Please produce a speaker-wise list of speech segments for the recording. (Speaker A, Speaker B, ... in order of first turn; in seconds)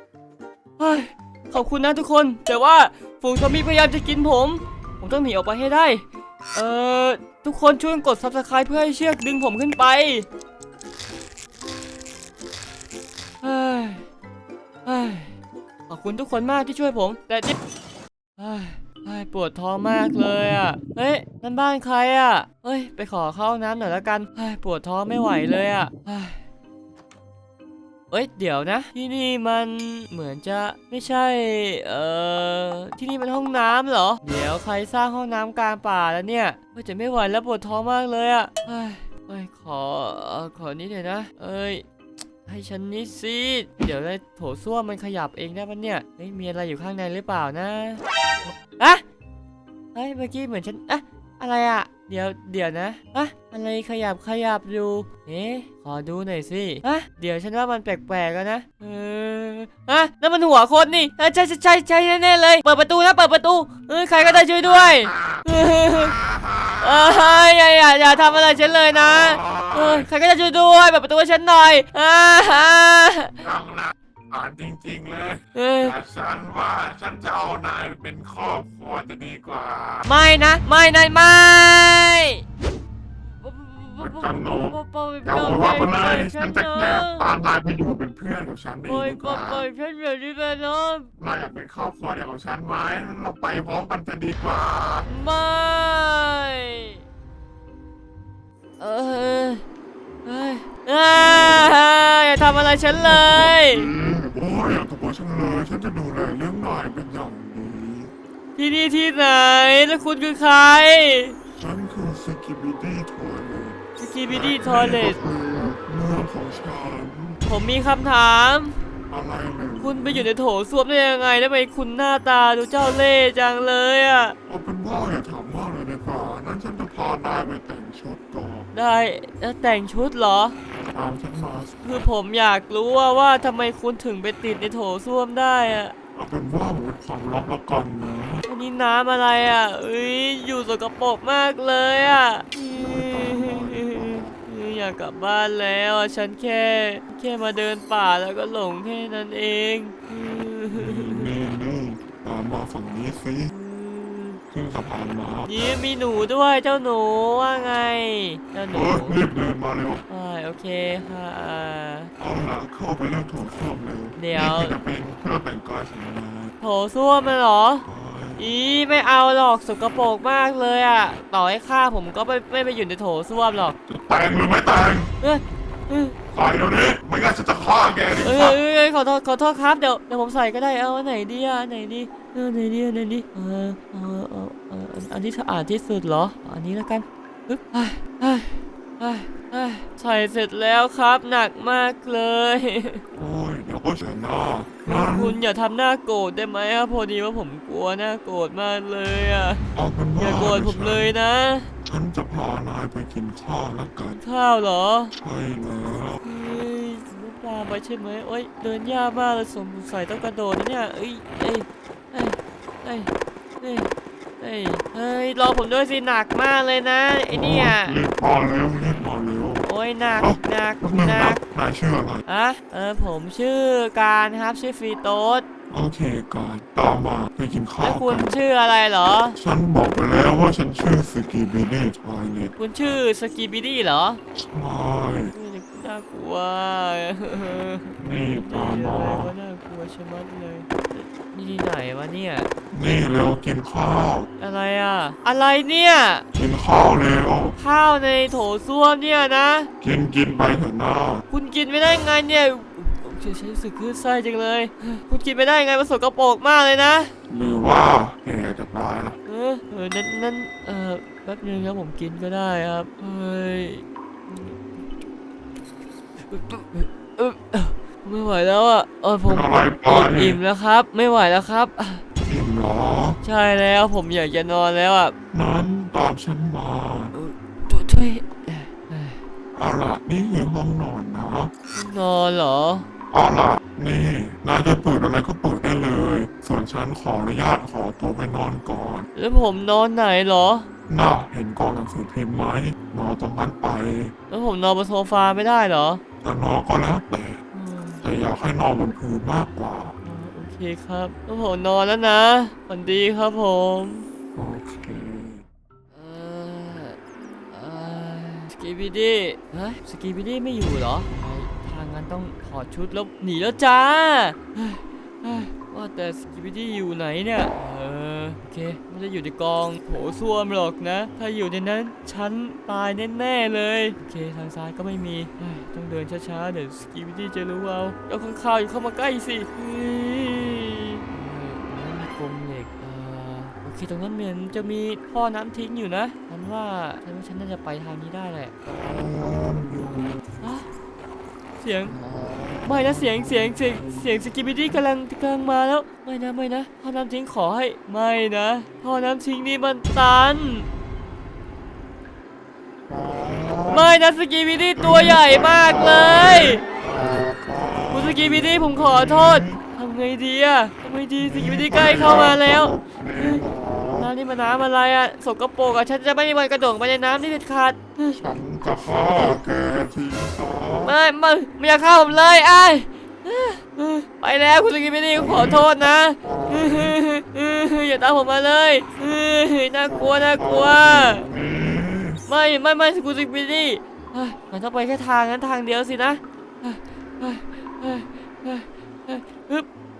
Speaker A: 0.8-10.3, 13.4-14.1, 14.9-15.3, 15.9-17.6, 18.4-26.4, 28.1-41.8, 42.5-49.0, 49.9-66.2, 66.8-73.4, 75.5-76.0, 80.0-82.4, 83.3-87.3, 88.9-91.1, 95.1-97.0, 98.8-99.6, 100.2-103.9, 108.6-111.4, 114.0-115.2, 117.4-118.8, 119.8-124.4, 128.7-130.6, 131.8-135.9, 138.5-151.3, 153.5-154.4, 155.5-159.2, 160.1-162.1, 164.2-164.8, 166.6-173.8, 175.2-176.2, 178.2-193.0, 194.8-201.7, 204.2-205.1, 206.2-218.0, 219.6-221.4, 222.3-225.5, 227.8-229.4, 232.6-234.2, 235.3-242.5, 244.4-246.2, 247.6-249.7, 251.3-257.1, 259.3-264.8, 266.3-272.0, 273.2-275.1, 277.1-279.2, 281.7-282.9, 289.1-290.7, 294.3-296.0, 297.5-298.0, 300.0-304.1, 305.9-307.0, 307.5-338.5, 340.4-340.7, 341.6-341.9, 342.6-350.7, 353.7-356.6, 357.9-363.4, 364.0-368.2, 370.8-381.3, 382.3-389.7
Speaker B: 64.2-67.5, 68.6-70.1, 73.4-80.1, 84.0-89.7, 91.2-95.1, 103.0-108.1, 111.6-117.4, 119.1-120.3, 124.5-128.7, 130.9-131.8, 136.2-138.5, 142.7-144.4, 150.7-153.5, 154.5-155.5, 158.7-160.0, 162.2-166.6, 167.9-168.5, 173.9-175.1, 176.3-178.6, 193.1-195.4, 199.7-201.1, 201.8-204.2, 205.1-206.2, 217.3-222.2, 225.7-228.4, 229.4-232.6, 234.4-235.3, 238.0-239.3, 242.7-244.3, 246.3-247.6, 249.8-251.2, 257.3-259.2, 269.3-270.4, 272.2-273.2, 275.3-277.1, 279.6-281.5, 283.1-289.1, 290.9-294.1, 296.2-297.4, 298.0-299.9, 304.4-305.4, 338.6-340.2, 341.9-344.1, 352.9-354.0, 354.8-359.6, 361.2-364.1, 368.2-371.0, 375.2-375.7, 376.2-377.0, 379.9-382.2